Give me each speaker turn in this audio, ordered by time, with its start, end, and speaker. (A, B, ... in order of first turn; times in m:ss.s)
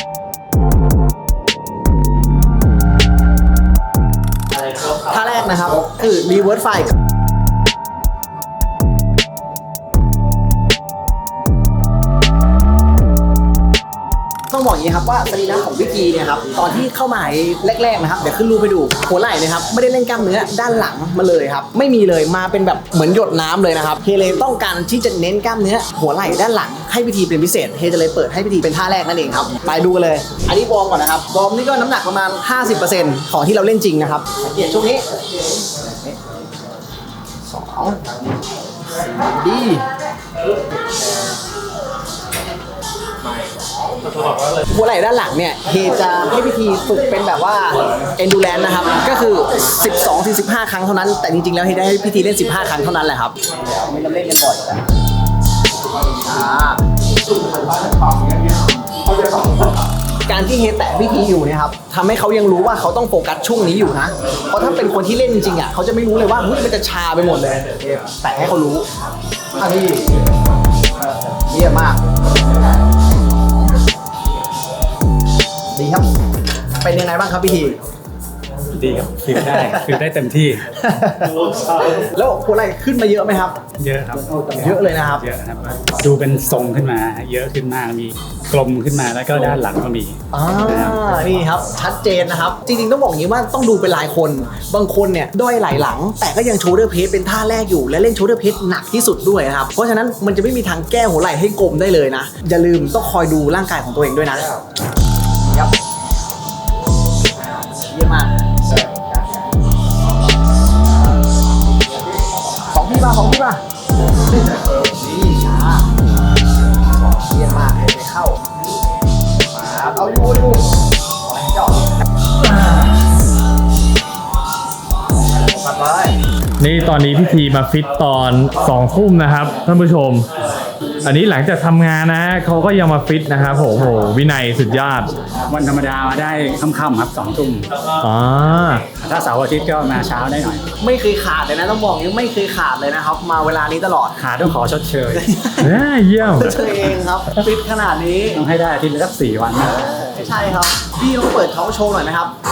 0:04.7-0:05.3 A
0:05.0-0:07.0 B
0:14.5-0:35.0 B
0:35.8-0:36.2 B
0:37.5-0:38.0 B
0:39.0-0:39.8 B
0:44.6-0:54.8 B
0:56.2-0:56.8 B
1:00.3-1:08.9 B
1:09.6-1:10.1 B
1:11.4-1:12.0 B
1:15.7-1:16.1 B
1:16.8-1:17.8 B
1:18.8-1:20.7 A
1:19.4-1:20.0 B
1:20.8-1:23.6 B
1:23.8-1:31.3 A
1:24.6-1:25.2 B
1:30.3-1:44.6 B
1:45.4-1:45.7 B
1:47.7-1:48.5 B
1:52.7-1:53.6 B
1:55.0-1:55.9 B
1:56.9-1:58.4 B
1:59.5-2:00.7 B
2:01.2-2:02.0 B
2:05.4-2:06.2 B
2:06.6-2:10.3 C
2:11.0-2:15.2 C
2:15.5-2:17.7 A
2:18.0-2:18.8 C
2:18.9-2:20.6 A
2:20.8-2:24.2 B
2:24.2-2:25.3 A
2:25.2-2:28.4 B
2:25.6-2:27.4 C
2:28.3-2:30.4 A
2:29.6-2:32.3 B